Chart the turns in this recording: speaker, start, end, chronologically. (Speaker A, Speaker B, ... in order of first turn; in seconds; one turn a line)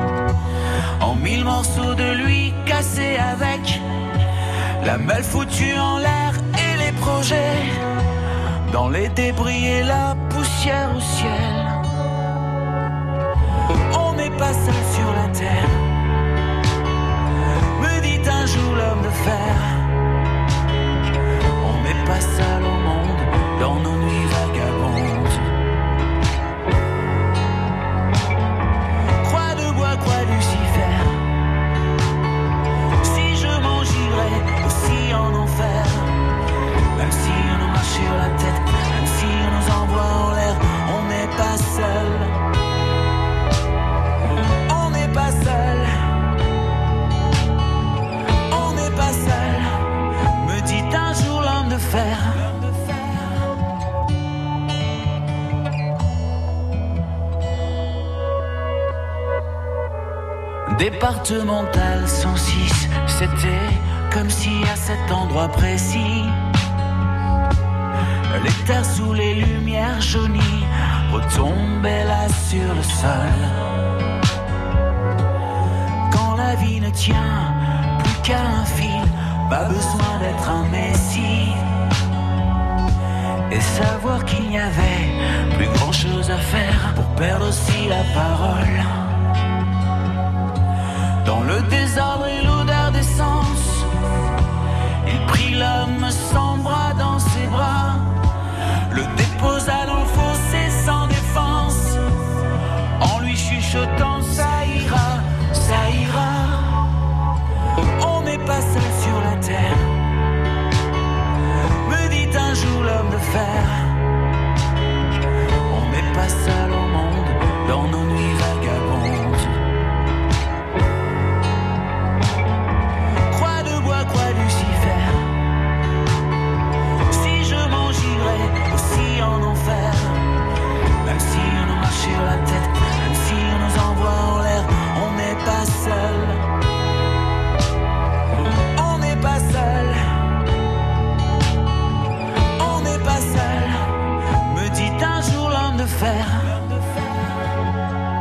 Speaker A: 1.0-3.8
Speaker A: 4.8-7.8
Speaker A: 8.7-11.8
Speaker A: 13.9-15.9
Speaker A: 17.8-19.9
Speaker A: 21.6-25.4
Speaker A: 29.2-31.4
Speaker A: 33.0-36.2
Speaker A: 37.0-42.3
Speaker A: 44.7-46.0
Speaker A: 48.5-49.8
Speaker A: 50.4-53.3
Speaker A: 60.7-66.4
Speaker A: 68.3-73.6
Speaker A: 76.1-81.6
Speaker A: 83.5-88.9
Speaker A: 91.2-93.9
Speaker A: 95.0-98.2
Speaker A: 98.9-102.0
Speaker A: 103.0-106.8
Speaker A: 108.0-110.0
Speaker A: 111.8-114.0
Speaker A: 115.7-119.5
Speaker A: 123.3-125.5
Speaker A: 127.1-130.3
Speaker A: 131.0-136.4
Speaker A: 138.7-140.1
Speaker A: 142.6-143.9
Speaker A: 144.5-147.3